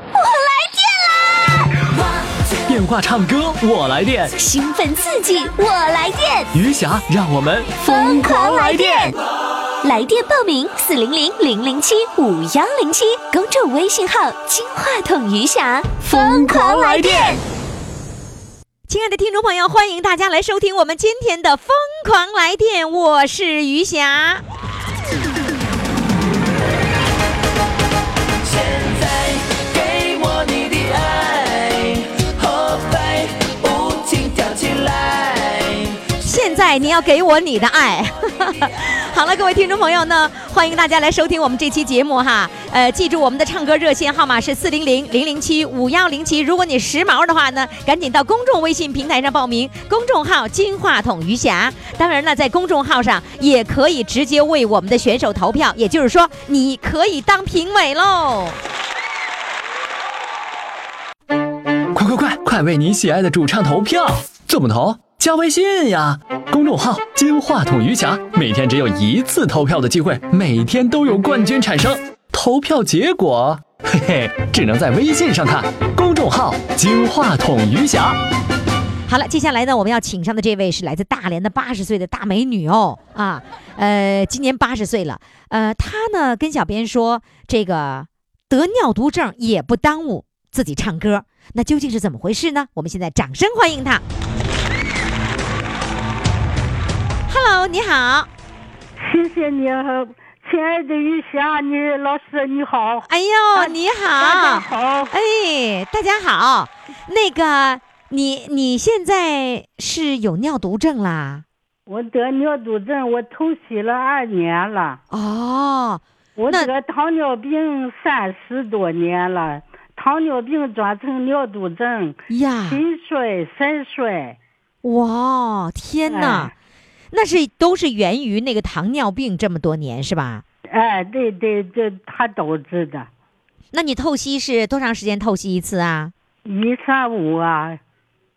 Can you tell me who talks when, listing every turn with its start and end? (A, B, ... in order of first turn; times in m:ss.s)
0:00.2-0:01.7 A
0:02.7-0:04.3 B
0:04.4-0:06.5 A
0:06.5-0:09.1 B
0:07.8-0:09.2 A
0:09.8-0:17.4 A
0:16.0-0:17.4 B
0:18.9-0:24.4 C
0:28.4-0:36.1 D
0:36.2-0:58.6 C
1:01.9-1:18.2 B
1:19.1-1:34.0 C
1:37.3-1:38.3 C
1:39.0-1:45.1 E
1:43.1-1:51.4 C
1:51.9-1:55.0 E
1:55.1-1:56.7 C
1:56.4-2:04.4 E
2:02.3-2:02.8 C
2:04.8-2:06.5 C
2:06.1-2:06.5 E
2:07.1-2:10.4 C
2:10.7-2:13.1 E
2:13.7-2:16.1 C
2:16.5-2:17.8 E